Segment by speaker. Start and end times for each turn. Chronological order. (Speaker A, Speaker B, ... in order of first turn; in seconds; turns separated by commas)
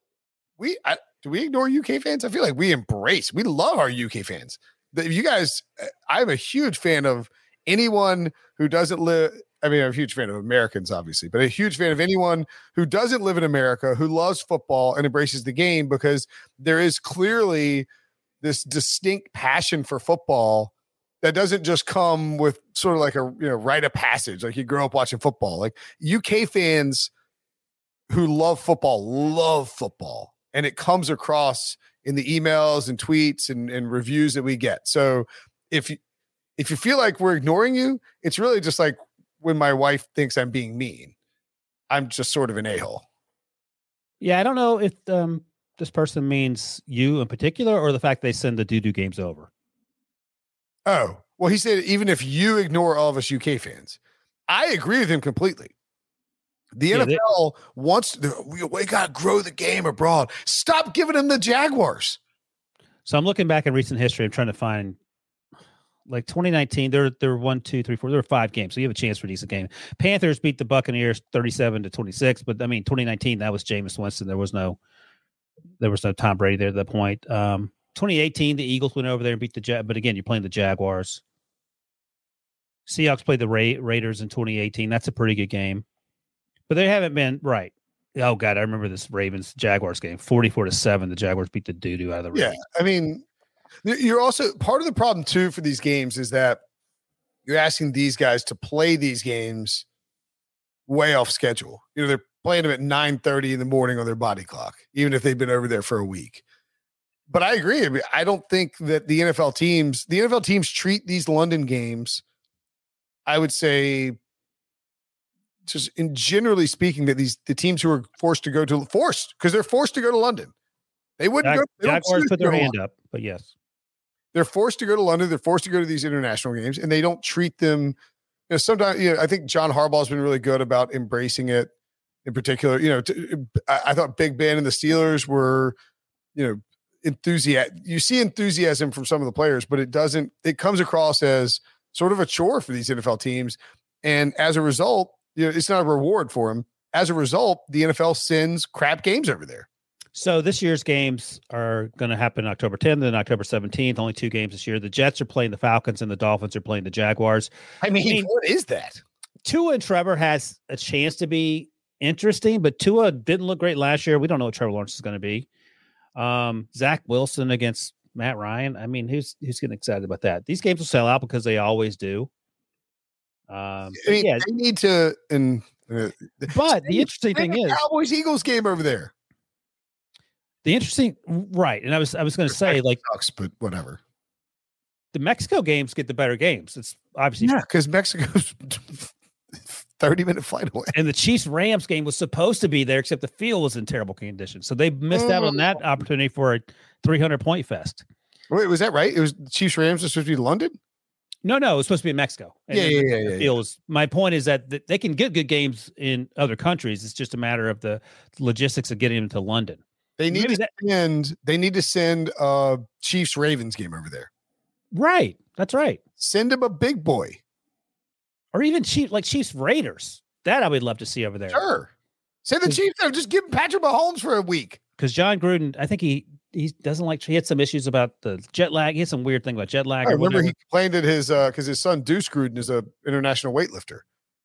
Speaker A: 0.6-17.9, Speaker A: 18.4-20.7, Speaker A: 21.2-27.1, Speaker A: 28.1-36.0, Speaker A: 36.6-41.1, Speaker A: 41.9-43.0, Speaker B: 44.2-49.5, Speaker A: 50.9-54.0, Speaker A: 54.5-55.7, Speaker A: 56.7-62.2, Speaker B: 56.9-57.2, Speaker B: 63.0-65.0, Speaker B: 66.1-74.8, Speaker B: 75.8-81.2, Speaker B: 82.9-85.8, Speaker B: 86.7-92.6, Speaker A: 92.3-93.2, Speaker A: 93.8-96.6, Speaker A: 97.5-99.8, Speaker A: 100.9-106.4, Speaker A: 107.3-112.2, Speaker A: 113.2-114.2, Speaker A: 115.7-120.5, Speaker A: 121.2-122.7, Speaker B: 121.4-123.5, Speaker A: 124.3-128.0, Speaker A: 128.5-131.7, Speaker A: 132.2-135.7, Speaker A: 136.3-149.7, Speaker B: 150.1-157.5, Speaker A: 157.8-159.0, Speaker B: 158.0-158.3, Speaker B: 159.4-165.5, Speaker B: 166.2-172.3, Speaker B: 173.5-174.5, Speaker A: 174.0-179.1, Speaker B: 176.5-177.8, Speaker B: 180.6-183.0, Speaker A: 182.5-184.0, Speaker B: 185.1-187.6, Speaker A: 187.4-189.1, Speaker A: 189.9-190.9, Speaker B: 190.9-198.0, Speaker A: 195.1-195.8, Speaker A: 198.5-200.8, Speaker B: 201.4-210.7, Speaker A: 202.7-203.5, Speaker A: 210.2-214.3, Speaker B: 214.9-216.0, Speaker A: 216.2-217.4, Speaker B: 218.5-221.6, Speaker A: 221.5-221.9, Speaker A: 222.4-224.8, Speaker B: 225.0-230.5, Speaker A: 230.0-234.0